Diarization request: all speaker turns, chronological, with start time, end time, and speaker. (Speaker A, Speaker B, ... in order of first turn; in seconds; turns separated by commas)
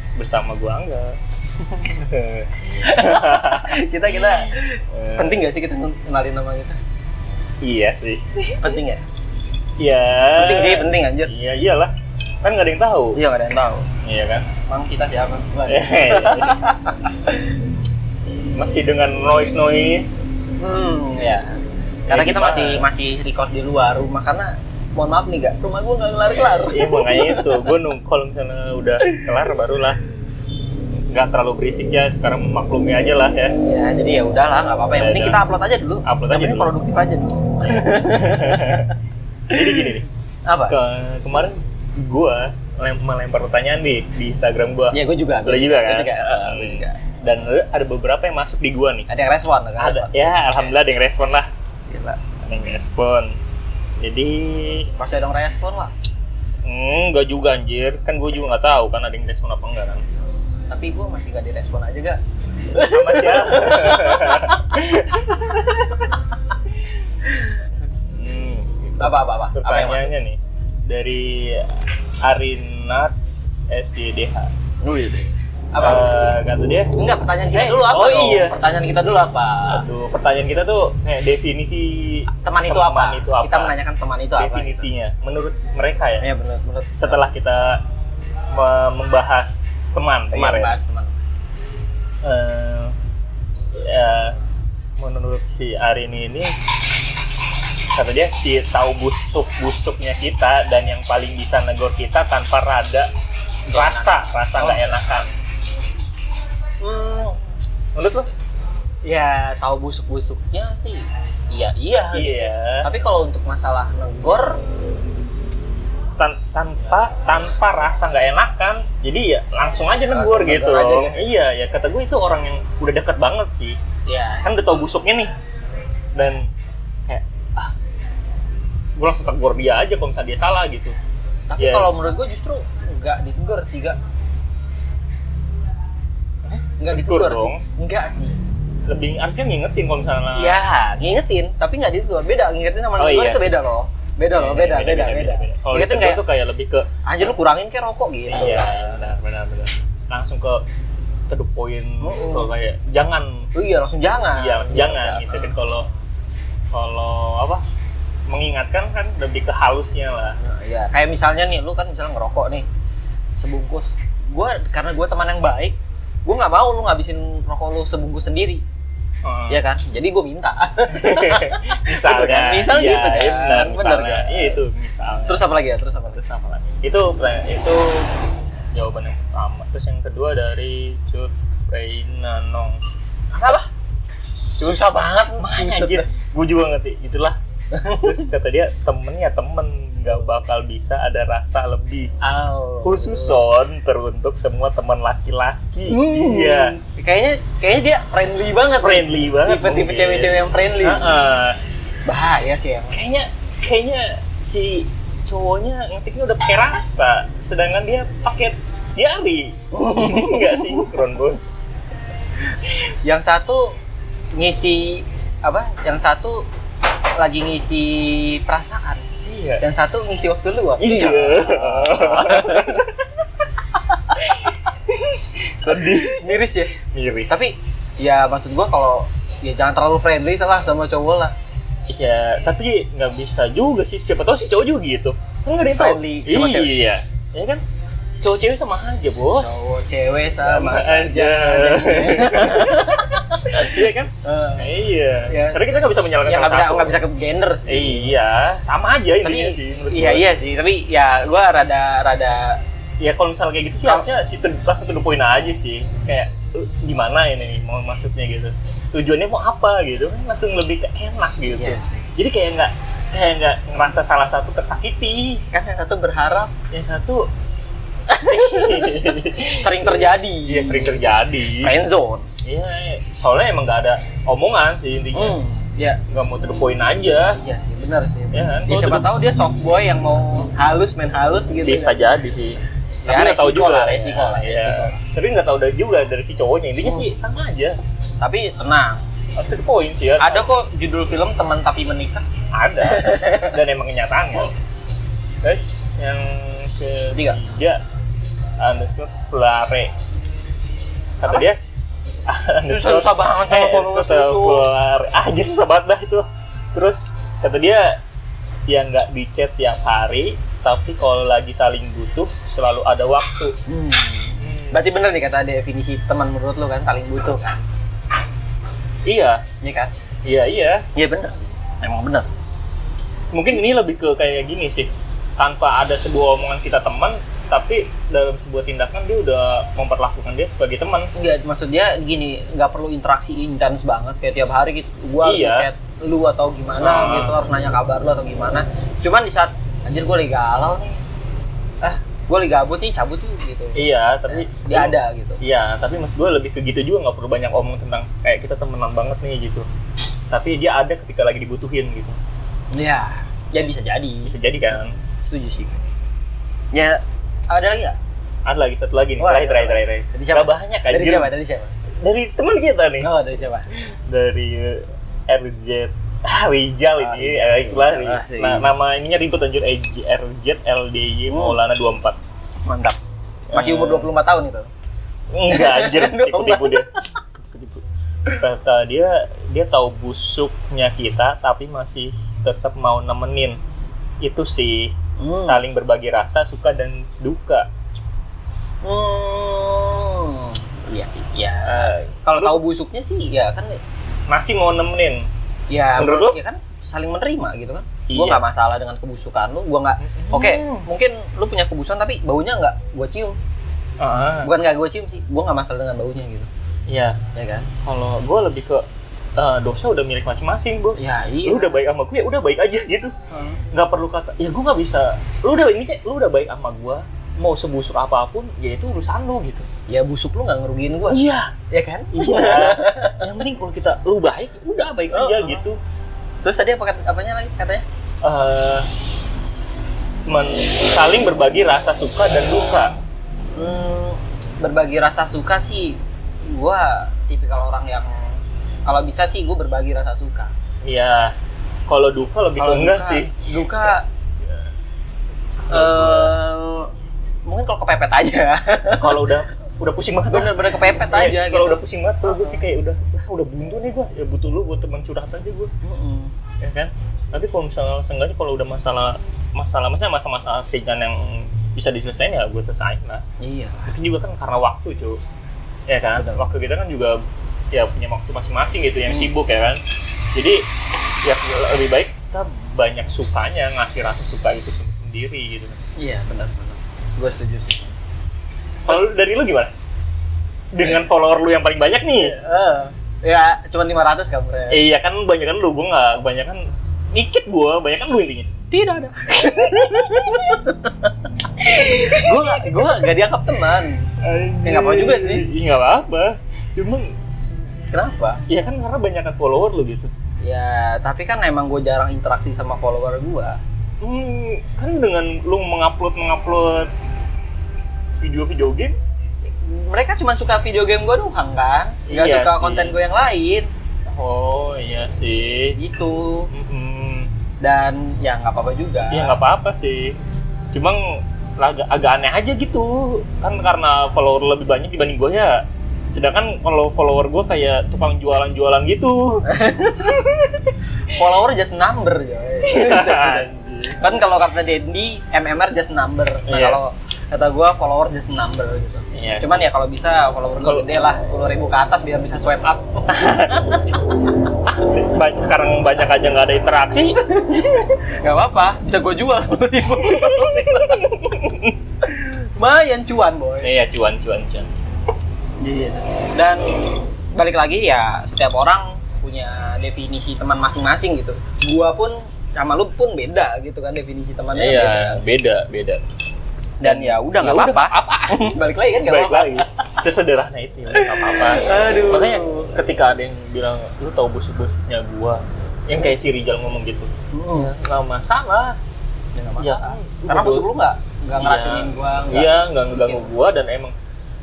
Speaker A: 0.1-1.2, Speaker B: 1.6-2.0, Speaker A: 1.8-5.4, Speaker B: 2.8-6.8, Speaker A: 7.6-8.8, Speaker B: 8.6-9.0, Speaker A: 9.8-13.2, Speaker B: 10.3-11.3, Speaker B: 13.1-13.9, Speaker A: 14.0-14.5, Speaker B: 14.7-17.5, Speaker A: 15.7-16.6, Speaker A: 18.5-20.3, Speaker B: 20.6-27.7, Speaker A: 22.1-22.9, Speaker A: 26.4-30.0, Speaker A: 31.1-33.5, Speaker B: 33.6-38.8, Speaker A: 35.0-35.4, Speaker A: 36.0-36.7, Speaker A: 37.6-38.9, Speaker A: 39.5-40.1, Speaker B: 39.5-39.9, Speaker B: 40.5-40.8, Speaker A: 40.7-49.1, Speaker B: 44.9-47.0, Speaker B: 49.1-50.7, Speaker A: 49.8-51.5, Speaker B: 51.9-52.2, Speaker A: 52.4-53.4, Speaker A: 54.0-54.9, Speaker B: 55.0-55.9, Speaker A: 56.6-60.0, Speaker B: 60.7-66.2, Speaker A: 62.8-65.8, Speaker A: 67.9-73.2, Speaker B: 69.0-70.1, Speaker A: 73.7-74.5, Speaker B: 74.8-76.1, Speaker A: 75.8-76.9, Speaker B: 76.9-79.8, Speaker A: 77.5-78.6, Speaker A: 79.7-83.7, Speaker B: 82.3-84.9, Speaker A: 84.4-86.2, Speaker B: 86.2-87.2, Speaker A: 87.0-87.8, Speaker A: 88.5-90.8, Speaker B: 90.3-91.2, Speaker A: 92.2-93.0, Speaker A: 93.7-94.4, Speaker A: 95.0-96.5, Speaker A: 97.9-103.1, Speaker B: 103.7-105.2, Speaker A: 103.7-105.3, Speaker B: 106.8-107.4, Speaker A: 107.9-108.3, Speaker B: 109.0-114.6, Speaker A: 112.1-112.9, Speaker A: 116.2-123.8, Speaker B: 120.1-121.2, Speaker B: 124.0-124.6, Speaker A: 124.4-125.3, Speaker A: 126.1-126.5, Speaker A: 127.1-127.7, Speaker A: 128.9-131.0, Speaker B: 131.5-134.0, Speaker A: 131.6-131.9, Speaker A: 136.4-137.6, Speaker B: 136.8-138.3, Speaker A: 138.8-140.6, Speaker B: 140.3-146.2, Speaker A: 143.0-143.5, Speaker A: 144.3-146.9, Speaker B: 147.1-149.1, Speaker A: 148.3-150.6, Speaker A: 151.3-153.5, Speaker B: 152.0-152.5, Speaker B: 153.5-155.6, Speaker A: 154.2-155.9, Speaker A: 156.7-157.6, Speaker A: 158.3-160.4, Speaker B: 160.4-162.7, Speaker B: 163.3-168.6, Speaker A: 169.2-169.6, Speaker B: 169.5-174.6, Speaker A: 170.9-175.4, Speaker B: 175.3-176.2, Speaker A: 176.1-182.8, Speaker B: 183.3-183.7, Speaker B: 184.6-186.1, Speaker A: 185.4-187.4, Speaker B: 187.7-188.3, Speaker A: 187.9-192.1, Speaker B: 192.2-193.4, Speaker A: 192.8-196.8, Speaker B: 195.9-201.0, Speaker A: 198.8-201.6, Speaker B: 202.0-203.0, Speaker A: 202.9-211.5, Speaker B: 209.7-210.9, Speaker B: 212.7-213.8, Speaker B: 214.3-216.5, Speaker B: 217.2-219.0, Speaker A: 219.2-219.6, Speaker B: 219.6-222.9, Speaker A: 220.8-222.9, Speaker B: 223.7-224.7, Speaker A: 224.2-227.3, Speaker B: 225.3-226.8, Speaker B: 227.3-231.3, Speaker A: 231.9-237.6, Speaker B: 235.7-236.7, Speaker A: 238.2-239.6, Speaker B: 239.3-244.8, Speaker A: 240.4-247.0, Speaker B: 245.3-248.1, Speaker A: 247.7-250.3, Speaker B: 249.2-252.6, Speaker A: 253.0-265.4, Speaker B: 261.4-262.1, Speaker B: 265.5-266.5, Speaker A: 266.7-267.3, Speaker B: 268.1-271.0, Speaker A: 268.2-271.7, Speaker B: 271.6-272.3, Speaker A: 272.4-275.4, Speaker B: 275.1-276.0, Speaker A: 276.1-277.4, Speaker B: 277.3-282.0, Speaker A: 278.3-279.1, Speaker A: 281.6-287.8, Speaker B: 283.0-285.0, Speaker B: 286.8-287.1, Speaker B: 288.2-289.0, Speaker A: 289.4-290.5, Speaker B: 290.2-292.2, Speaker A: 292.5-294.5, Speaker B: 292.8-293.6, Speaker A: 295.4-297.8, Speaker B: 297.1-297.4, Speaker A: 298.6-299.9, Speaker A: 301.2-301.6, Speaker A: 302.2-308.0, Speaker B: 302.6-304.7, Speaker A: 308.7-313.6, Speaker B: 313.7-317.6, Speaker A: 314.4-314.8, Speaker A: 319.1-319.4, Speaker B: 319.6-319.9, Speaker A: 320.2-320.9, Speaker B: 320.9-322.3, Speaker A: 323.3-331.1, Speaker B: 331.1-341.0, Speaker A: 335.2-335.7, Speaker A: 336.8-337.4, Speaker B: 341.8-345.4, Speaker A: 343.7-349.7, Speaker A: 350.3-352.2, Speaker B: 352.7-355.8, Speaker A: 354.2-355.0, Speaker B: 356.7-358.0, Speaker A: 358.4-361.3, Speaker B: 359.2-361.7, Speaker A: 361.9-363.1, Speaker B: 363.0-363.7, Speaker A: 363.7-372.2, Speaker B: 367.0-368.7, Speaker B: 371.3-371.6, Speaker B: 372.6-373.0, Speaker A: 373.5-374.1, Speaker B: 373.5-374.7, Speaker A: 375.3-376.9, Speaker B: 375.5-377.0, Speaker A: 377.4-383.6, Speaker A: 384.2-387.7, Speaker B: 385.2-385.6, Speaker B: 388.8-393.8, Speaker A: 391.6-392.6, Speaker A: 394.3-395.3, Speaker B: 395.7-403.4, Speaker A: 396.0-396.4, Speaker A: 398.1-398.4, Speaker A: 400.0-400.9, Speaker A: 404.0-404.5, Speaker B: 404.4-406.5, Speaker A: 406.9-407.2, Speaker B: 407.3-407.7, Speaker A: 407.8-413.1, Speaker B: 410.9-411.8, Speaker B: 413.3-413.6, Speaker A: 413.7-419.7, Speaker B: 419.9-423.2, Speaker A: 421.1-421.5, Speaker A: 422.1-425.8, Speaker B: 425.1-425.6, Speaker B: 426.4-427.8, Speaker A: 428.2-428.9, Speaker A: 430.3-432.9, Speaker B: 433.5-440.5, Speaker A: 440.8-441.3, Speaker A: 441.9-443.5, Speaker B: 442.6-444.1, Speaker A: 445.6-446.4, Speaker B: 445.7-446.9, Speaker B: 447.4-449.2, Speaker A: 449.0-455.7, Speaker B: 450.3-452.6, Speaker B: 455.8-456.3, Speaker A: 456.6-463.2, Speaker B: 463.4-463.9, Speaker A: 463.9-465.2, Speaker A: 465.9-467.2, Speaker B: 466.1-466.5, Speaker A: 467.7-469.8, Speaker B: 469.1-469.3, Speaker A: 470.3-470.7, Speaker A: 471.2-475.8, Speaker B: 476.0-477.9, Speaker A: 478.9-479.7, Speaker A: 480.7-482.4, Speaker B: 482.2-484.8, Speaker A: 484.7-488.5, Speaker B: 488.7-494.1, Speaker A: 489.5-490.6, Speaker A: 491.6-492.9, Speaker A: 494.2-497.1, Speaker B: 494.6-495.4, Speaker B: 497.9-498.4, Speaker A: 498.5-500.1, Speaker B: 500.4-503.6, Speaker A: 504.0-506.9, Speaker A: 508.2-509.0, Speaker B: 509.4-513.7, Speaker A: 512.1-513.0, Speaker A: 514.0-515.8, Speaker B: 515.7-516.5, Speaker A: 516.5-517.3, Speaker B: 517.6-519.4, Speaker A: 519.1-520.1, Speaker A: 520.7-529.5, Speaker B: 529.5-544.0, Speaker A: 532.6-534.0, Speaker A: 536.5-536.8, Speaker A: 539.1-539.7, Speaker A: 543.1-543.7, Speaker A: 544.6-547.2, Speaker B: 547.2-551.1, Speaker A: 550.0-551.8, Speaker B: 552.0-553.7, Speaker A: 553.6-554.7, Speaker B: 555.6-556.8, Speaker B: 557.3-565.2, Speaker A: 564.5-566.0, Speaker B: 566.8-570.0, Speaker A: 566.8-578.8, Speaker B: 570.9-572.8, Speaker B: 577.3-577.7, Speaker B: 579.3-583.3, Speaker A: 579.6-580.7, Speaker A: 581.4-583.9